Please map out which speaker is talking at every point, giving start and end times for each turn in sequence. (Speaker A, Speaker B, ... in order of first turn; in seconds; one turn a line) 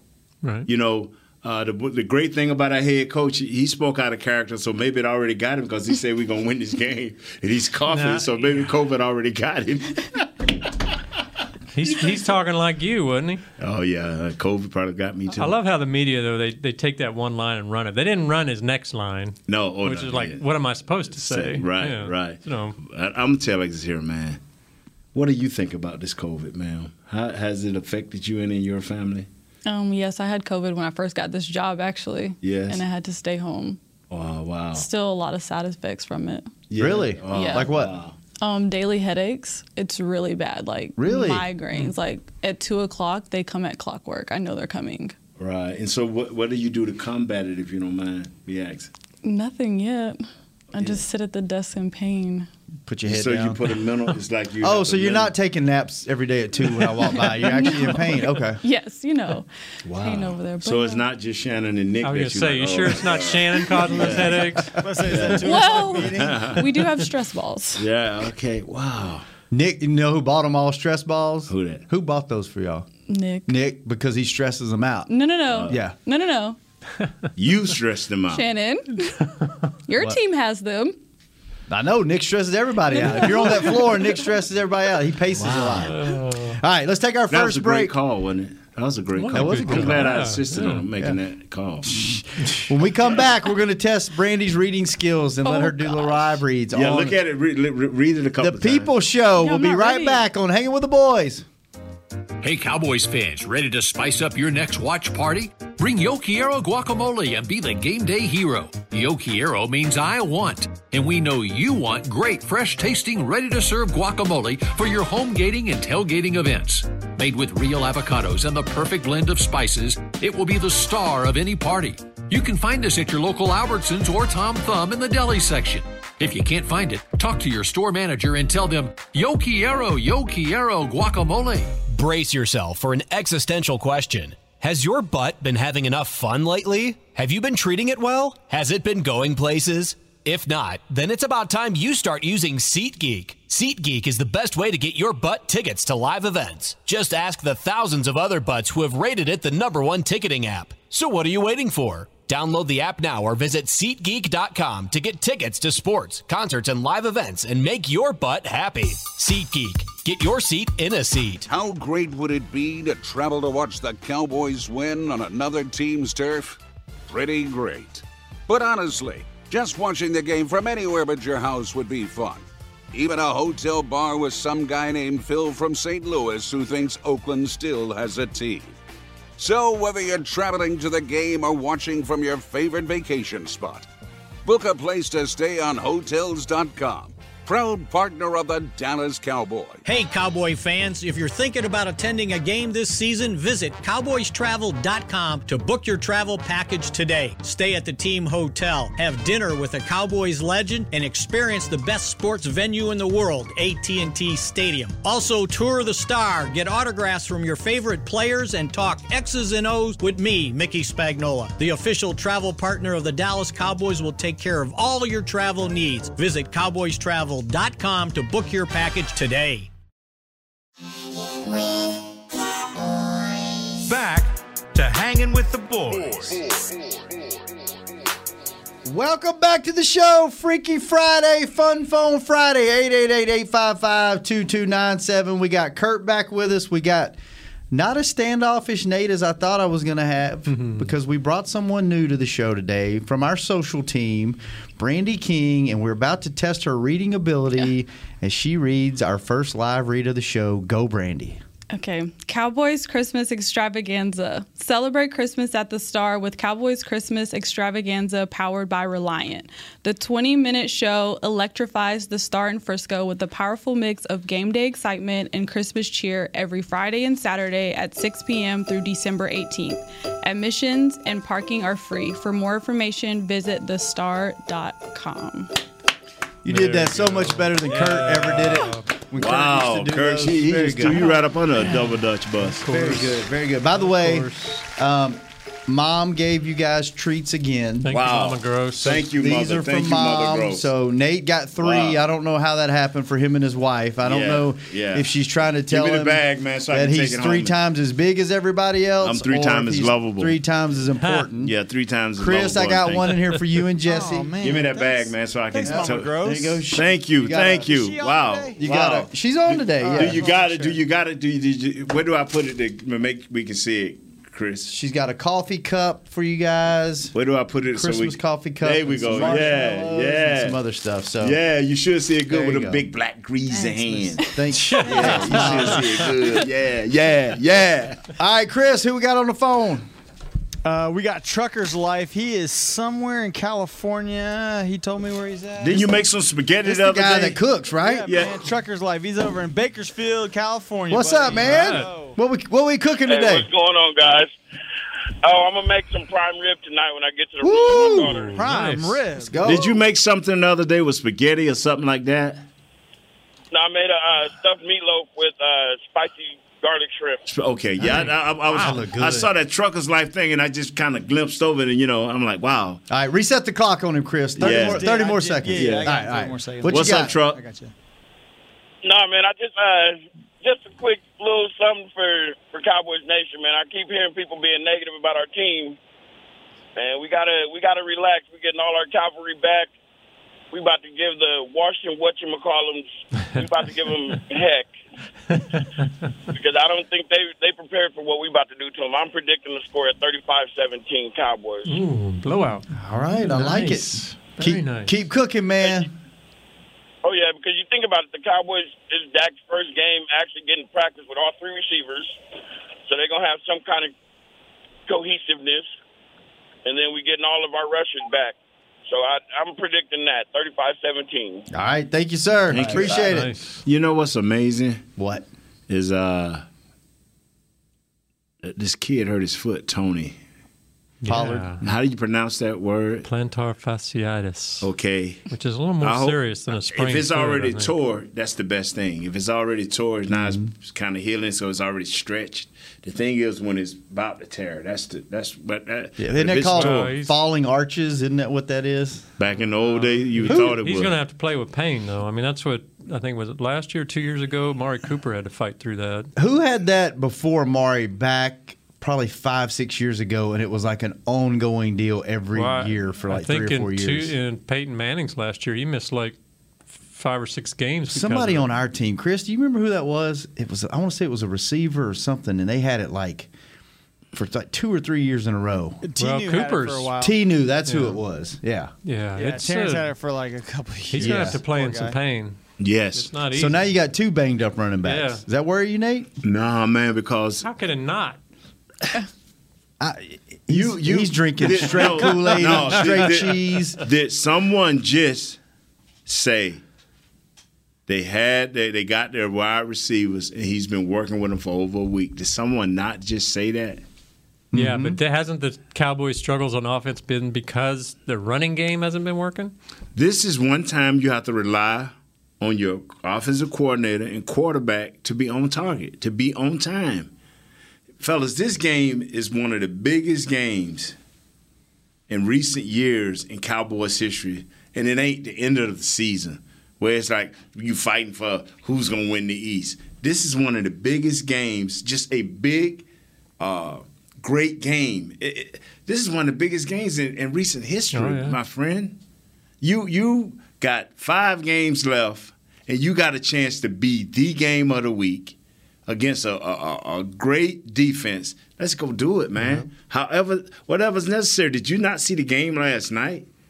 Speaker A: 0.4-0.7
Speaker B: 0.7-10.3
Speaker A: 7.9-8.7
Speaker A: 11.8-13.4
Speaker B: 11.9-12.3
Speaker B: 13.6-15.6
Speaker A: 15.3-22.8
Speaker B: 19.5-20.5
Speaker B: 21.1-24.4
Speaker B: 25.1-29.3
Speaker C: 29.7-33.8
Speaker B: 32.4-32.8
Speaker B: 34.1-34.9
Speaker C: 34.8-36.5
Speaker B: 36.7-38.1
Speaker D: 36.8-38.0
Speaker C: 37.3-37.7
Speaker C: 38.4-45.1
Speaker D: 41.0-41.5
Speaker B: 45.4-48.9
Speaker C: 49.2-50.2
Speaker C: 50.7-52.5
Speaker D: 52.9-53.6
Speaker B: 53.0-55.3
Speaker D: 54.6-58.6
Speaker C: 57.2-61.0
Speaker B: 59.9-66.8
Speaker A: 62.0-64.8
Speaker E: 64.8-66.5
Speaker C: 65.4-67.8
Speaker B: 67.8-69.2
Speaker D: 69.5-72.9
Speaker B: 71.5-71.8
Speaker C: 73.1-73.5
Speaker D: 73.5-75.1
Speaker C: 75.1-76.6
Speaker B: 75.5-75.8
Speaker D: 75.7-76.0
Speaker B: 77.4-78.5
Speaker C: 78.3-79.2
Speaker C: 79.9-81.0
Speaker D: 81.7-87.9
Speaker C: 82.9-84.2
Speaker B: 85.3-85.9
Speaker A: 85.9-86.6
Speaker B: 87.3-92.2
Speaker A: 89.2-90.9
Speaker D: 89.3-90.2
Speaker D: 91.9-97.2
Speaker C: 95.4-96.3
Speaker B: 96.7-98.9
Speaker D: 98.4-101.5
Speaker C: 99.4-100.2
Speaker F: 102.4-131.8
Speaker G: 131.8-161.5
Speaker H: 161.5-166.6
Speaker H: 167.1-178.8
Speaker H: 179.4-183.9
Speaker H: 184.4-189.8
Speaker I: 189.8-219.7
Speaker J: 223.8-226.5
Speaker D: 228.8-237.2
Speaker D: 237.7-251.4
Speaker A: 240.5-240.9
Speaker C: 251.7-275.5
Speaker D: 276.4-281.1
Speaker A: 276.5-278.9
Speaker B: 279.2-282.6
Speaker A: 282.6-284.6
Speaker D: 282.6-287.9
Speaker A: 287.8-289.0
Speaker B: 287.9-290.7
Speaker D: 289.1-301.5
Speaker B: 291.6-292.0
Speaker B: 294.0-295.1
Speaker B: 295.7-297.6
Speaker B: 299.0-300.4
Speaker B: 301.4-303.2
Speaker D: 302.2-304.3
Speaker E: 303.8-306.7
Speaker B: 304.4-314.7
Speaker D: 305.6-307.8
Speaker E: 307.4-308.6
Speaker D: 308.6-310.3
Speaker E: 309.7-310.8
Speaker D: 314.7-317.1
Speaker B: 317.1-320.6
Speaker D: 317.7-321.4
Speaker B: 321.2-328.0
Speaker D: 322.3-322.9
Speaker C: 323.6-324.2
Speaker D: 324.2-326.0
Speaker A: 324.7-325.3
Speaker D: 328.2-329.9
Speaker E: 330.6-336.0
Speaker B: 335.6-337.4
Speaker D: 336.6-338.1
Speaker E: 337.8-342.2
Speaker B: 338.1-338.4
Speaker D: 340.9-343.5
Speaker A: 341.3-341.9
Speaker K: 343.1-344.3
Speaker K: 345.2-348.4
Speaker D: 347.4-348.3
Speaker E: 347.9-349.6
Speaker A: 348.1-349.0
Speaker D: 349.2-349.8
Speaker B: 349.4-352.4
Speaker K: 353.5-357.2
Speaker B: 357.3-362.8
Speaker D: 357.8-359.3
Speaker D: 362.9-367.2
Speaker E: 364.4-367.7
Speaker B: 364.4-366.0
Speaker B: 366.6-367.4
Speaker K: 368.8-375.8
Speaker K: 376.8-379.7
Speaker K: 380.5-384.7
Speaker K: 386.3-391.8
Speaker A: 391.7-392.7
Speaker D: 392.7-395.9
Speaker A: 393.2-394.9
Speaker K: 397.0-402.2
Speaker K: 402.9-403.9
Speaker K: 404.9-405.7
Speaker K: 406.6-408.4
Speaker K: 408.9-411.4
Speaker D: 411.5-413.3
Speaker B: 412.5-414.9
Speaker A: 413.0-413.6
Speaker D: 415.0-415.3
Speaker B: 415.7-416.4
Speaker B: 418.4-420.2
Speaker A: 421.0-421.6
Speaker D: 421.1-421.6
Speaker B: 421.6-423.1
Speaker A: 423.0-424.7
Speaker B: 424.6-425.3
Speaker A: 425.3-427.7
Speaker B: 425.8-436.9
Speaker D: 430.1-430.5
Speaker D: 436.0-439.1
Speaker A: 436.5-437.1
Speaker B: 439.2-441.0
Speaker A: 439.6-446.1
Speaker D: 440.3-440.6
Speaker D: 446.2-454.1
Speaker A: 452.4-456.2
Speaker A: 456.9-458.5
Speaker D: 457.9-463.3
Speaker D: 464.1-465.8
Speaker E: 465.8-467.2
Speaker A: 466.0-466.9
Speaker D: 467.0-468.7
Speaker A: 467.7-468.0
Speaker A: 468.8-469.9
Speaker E: 469.1-472.0
Speaker A: 470.9-472.4
Speaker D: 471.0-471.4
Speaker B: 472.6-473.1
Speaker A: 472.9-473.6
Speaker D: 473.3-476.1
Speaker A: 474.9-475.2
Speaker B: 476.2-477.4
Speaker A: 477.4-478.2
Speaker D: 479.8-483.8
Speaker B: 480.5-485.4
Speaker B: 486.1-486.6
Speaker B: 487.9-493.8
Speaker D: 494.5-495.0
Speaker A: 494.5-499.5
Speaker B: 499.9-507.1
Speaker B: 508.0-511.0
Speaker B: 512.1-522.9
Speaker B: 523.4-529.0
Speaker A: 527.9-528.4
Speaker B: 529.6-535.4
Speaker B: 535.9-543.3